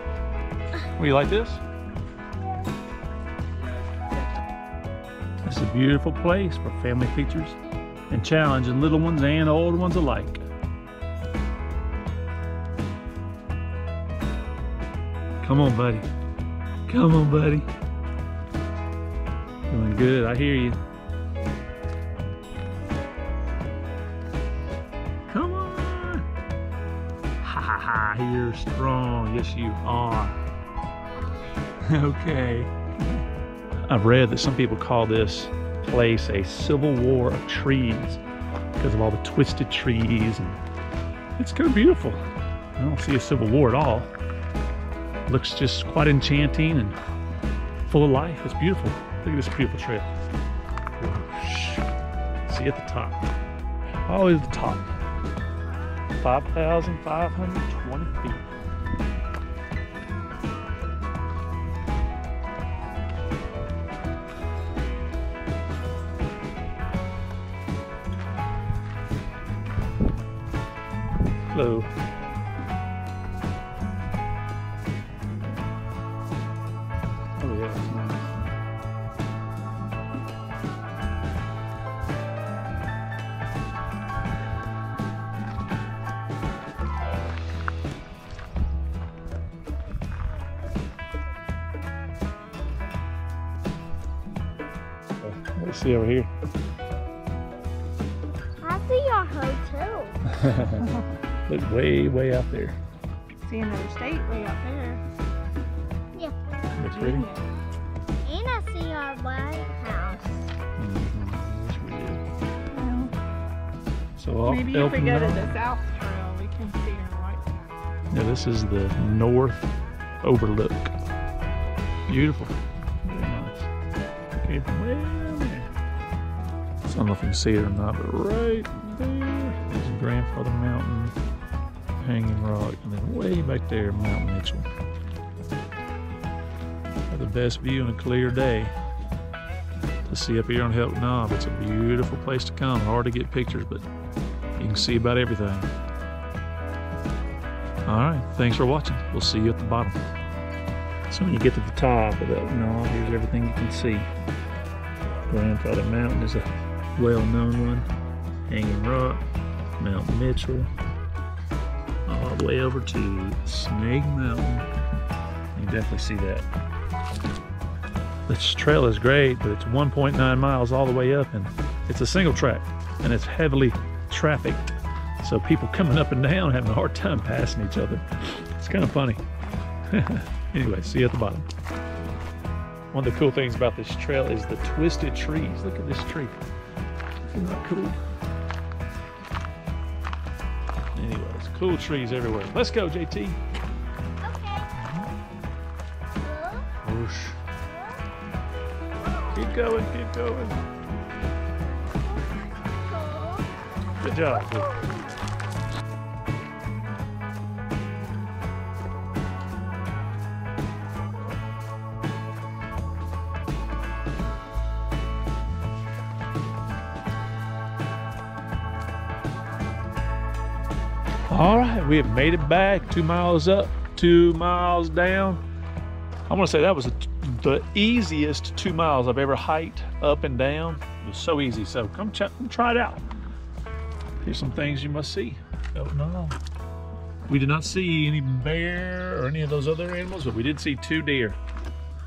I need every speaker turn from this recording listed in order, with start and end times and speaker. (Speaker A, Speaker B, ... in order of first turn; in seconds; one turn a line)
Speaker A: 0.8-1.6
Speaker A: 5.5-7.6
Speaker A: 8.1-10.4
Speaker A: 15.4-16.1
Speaker A: 16.9-17.7
Speaker A: 19.7-20.8
Speaker A: 25.3-26.3
Speaker A: 27.4-30.4
Speaker B: 31.2-31.6
Speaker A: 31.8-32.7
Speaker A: 33.9-38.2
Speaker A: 38.8-40.6
Speaker A: 41.4-42.2
Speaker A: 42.8-44.1
Speaker A: 45.3-47.0
Speaker A: 47.9-50.1
Speaker A: 51.0-51.9
Speaker A: 52.5-53.3
Speaker A: 54.1-54.9
Speaker A: 56.2-58.5
Speaker A: 71.5-71.9
Speaker A: 77.4-78.3
Speaker A: 95.2-96.3
Speaker B: 98.6-100.2
Speaker A: 100.3-100.9
Speaker A: 101.5-102.8
Speaker C: 103.5-105.0
Speaker A: 106.7-107.3
Speaker C: 106.8-107.5
Speaker B: 108.2-110.5
Speaker A: 110.8-112.2
Speaker C: 112.7-113.1
Speaker A: 114.2-115.5
Speaker C: 114.5-117.5
Speaker A: 118.1-119.7
Speaker A: 120.2-120.9
Speaker A: 122.1-123.7
Speaker A: 124.4-125.7
Speaker A: 126.8-131.2
Speaker A: 132.0-134.7
Speaker A: 137.1-138.7
Speaker A: 140.1-143.8
Speaker A: 144.6-145.7
Speaker A: 147.9-150.0
Speaker A: 151.1-154.1
Speaker A: 155.3-157.9
Speaker A: 158.5-159.2
Speaker A: 159.8-160.7
Speaker A: 162.1-164.7
Speaker A: 165.5-166.5
Speaker A: 168.3-174.7
Speaker A: 175.2-179.2
Speaker A: 179.9-181.5
Speaker A: 182.9-186.3
Speaker A: 187.3-188.0
Speaker A: 190.9-193.4
Speaker B: 194.2-194.7
Speaker A: 194.8-195.1
Speaker B: 196.2-196.7
Speaker A: 196.8-197.4
Speaker B: 197.7-198.0
Speaker B: 199.0-199.6
Speaker A: 199.3-200.6
Speaker B: 202.1-203.5
Speaker A: 204.0-204.7
Speaker B: 204.3-205.1
Speaker A: 221.3-225.4
Speaker A: 226.3-233.0
Speaker A: 234.2-236.4
Speaker A: 237.3-241.4